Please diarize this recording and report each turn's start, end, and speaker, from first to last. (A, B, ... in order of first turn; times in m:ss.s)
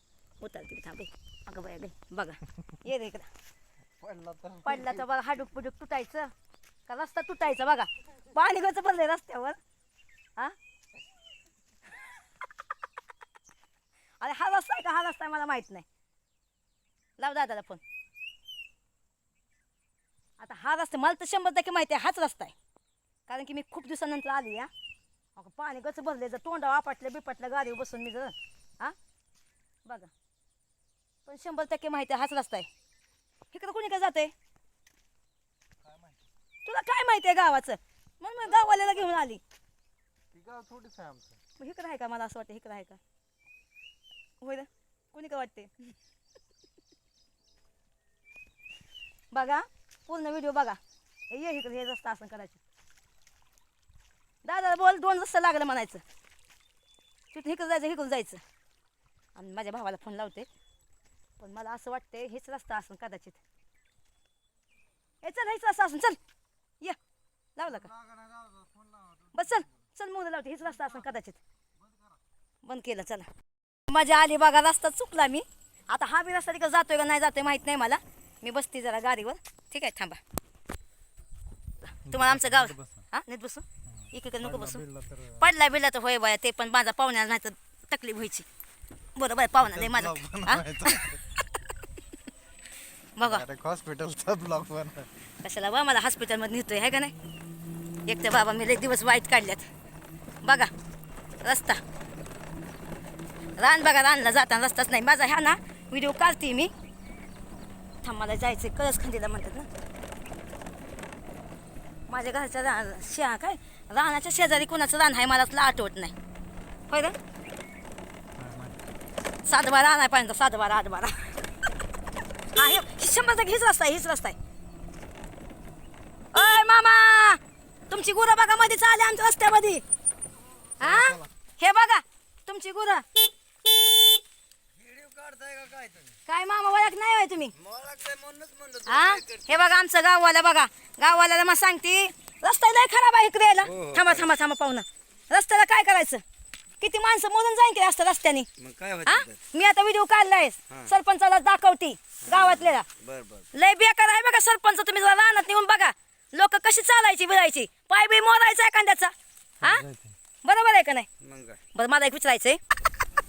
0:00.4-0:03.3 A
0:04.0-0:05.0 B
0:04.6-0:06.3 A
0:06.9-0:09.6 A
0:14.2-0:15.9 A
0:17.2-0:17.8 A
0:20.4-0:22.6 A
0:23.3-0:24.7 A
0:25.4-0:29.0 A
0:29.9-0:30.1 A
0:31.3-0:32.7 A
0:33.5-0:34.3 A
0:36.6-0:39.4 A
0:40.4-0:41.3 B
0:41.6-0:43.0 A
0:44.4-0:45.9 A
0:49.3-0:52.6 A
0:54.4-0:56.0 A
0:57.3-0:58.4 A
0:59.4-1:00.5 A
1:01.4-1:03.4 A
1:05.2-1:06.2 A
1:07.6-1:07.9 A
1:07.9-1:09.3 B
1:09.3-1:11.4 A
1:12.6-1:13.3 A
1:13.9-1:20.2 A
1:22.1-1:28.5 A
1:22.1-1:23.0 B
1:24.4-1:25.4 B
1:29.2-1:31.4 A
1:29.6-1:31.2 B
1:33.2-1:33.4 A
1:33.2-1:35.1 B
1:35.4-1:37.1 A
1:38.1-1:39.7 A
1:40.4-1:40.7 A
1:41.4-1:41.8 A
1:43.6-1:46.7 A
1:48.0-1:49.7 A
1:52.1-1:56.1 A
1:56.9-1:57.2 A
1:58.4-1:58.8 B
1:59.4-2:01.3 A
2:02.5-2:04.4 A
2:06.3-2:09.8 A
2:10.8-2:13.1 A
2:10.8-2:11.2 B
2:14.8-2:16.1 C
2:16.3-2:17.6 A
2:17.6-2:19.0 C
2:18.9-2:26.2 A
2:26.8-2:28.5 A
2:28.6-2:29.3 C
2:29.0-2:32.9 A
2:33.0-2:33.4 C
2:33.5-2:39.9 A
2:39.6-2:40.1 B
2:40.4-2:41.1 A
2:41.2-2:41.6 C
2:41.7-2:42.6 A